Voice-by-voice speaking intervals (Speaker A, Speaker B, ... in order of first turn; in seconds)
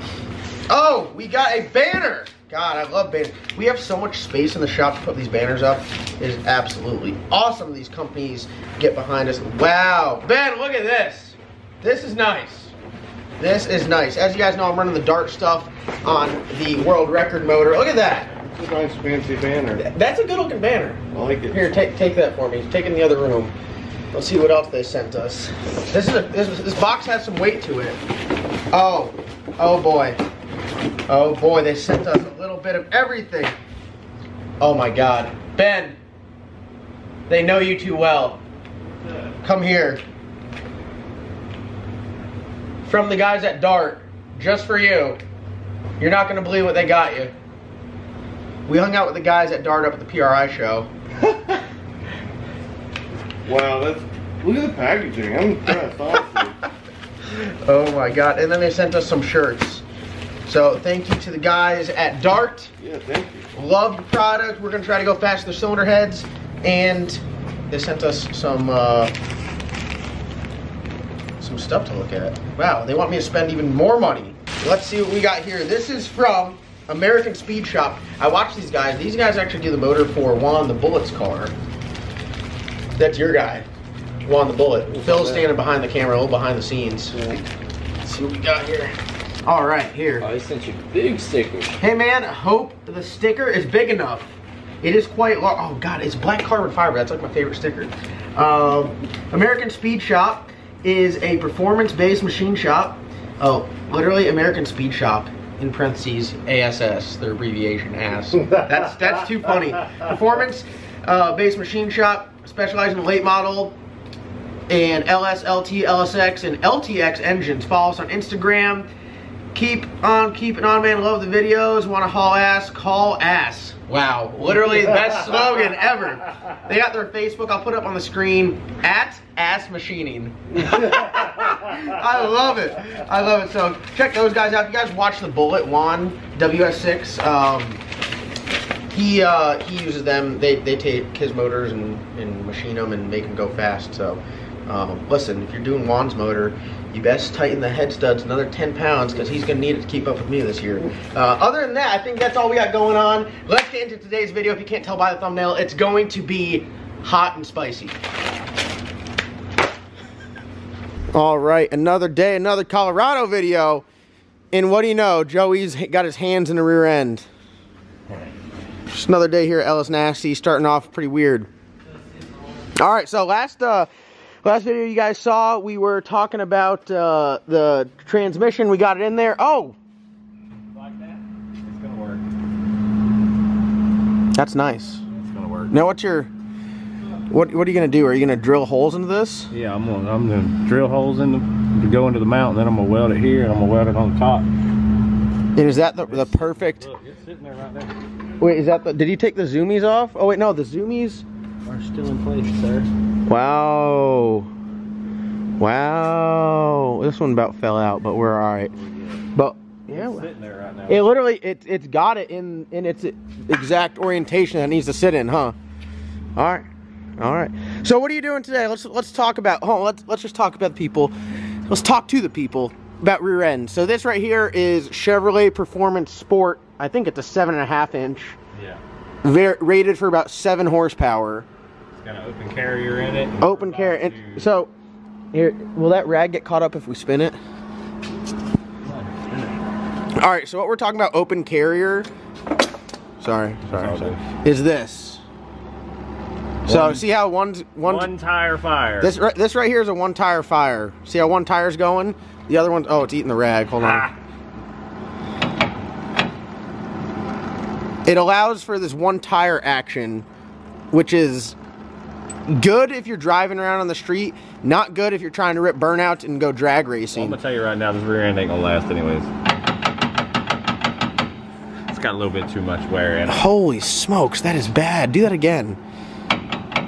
Speaker A: 0.7-12.7, 13.4-18.3, 19.8-23.5, 24.1-28.0, 28.7-30.2, 31.1-33.6, 34.6-36.0, 37.3-38.4, 39.4-40.0, 42.9-45.2, 46.0-47.3, 48.7-50.9, 57.3-59.9, 60.5-62.7, 63.5-69.1, 71.4-81.5, 83.0-83.7, 84.2-87.2, 88.0-90.3, 91.8-113.8, 114.7-118.9, 119.5-137.8, 138.9-157.9, 161.1-163.9, 164.5-167.3, 168.9-171.5, 172.8-173.9, 174.4-179.8, 184.3-185.0, 185.7-186.3, 187.3-189.5, 195.6-196.9, 198.4-201.2, 203.3-204.5, 205.6-208.7, 209.3-210.3, 210.9-215.6, 216.4-216.7, 217.2-221.1, 221.7-228.4, 229.2-231.5, 233.4-234.7, 235.3-237.4, 240.2-242.1, 243.2-245.2, 246.7-248.1, 249.0-254.1, 258.1-260.3, 260.9-261.6, 262.5-267.4, 273.3-275.8
Speaker B: 18.4-19.8, 21.1-21.7, 53.5-56.6, 62.8-63.5, 85.0-85.4
Speaker C: 90.2-91.7, 180.8-182.2, 185.1-185.7, 189.5-194.5, 196.0-197.9, 201.7-202.9, 208.8-209.2, 209.9-211.1, 228.5-228.8, 231.9-234.5, 238.8-239.6, 243.7-244.2, 246.6-247.0, 247.8-249.1, 253.8-254.1, 267.1-269.3, 271.9-273.5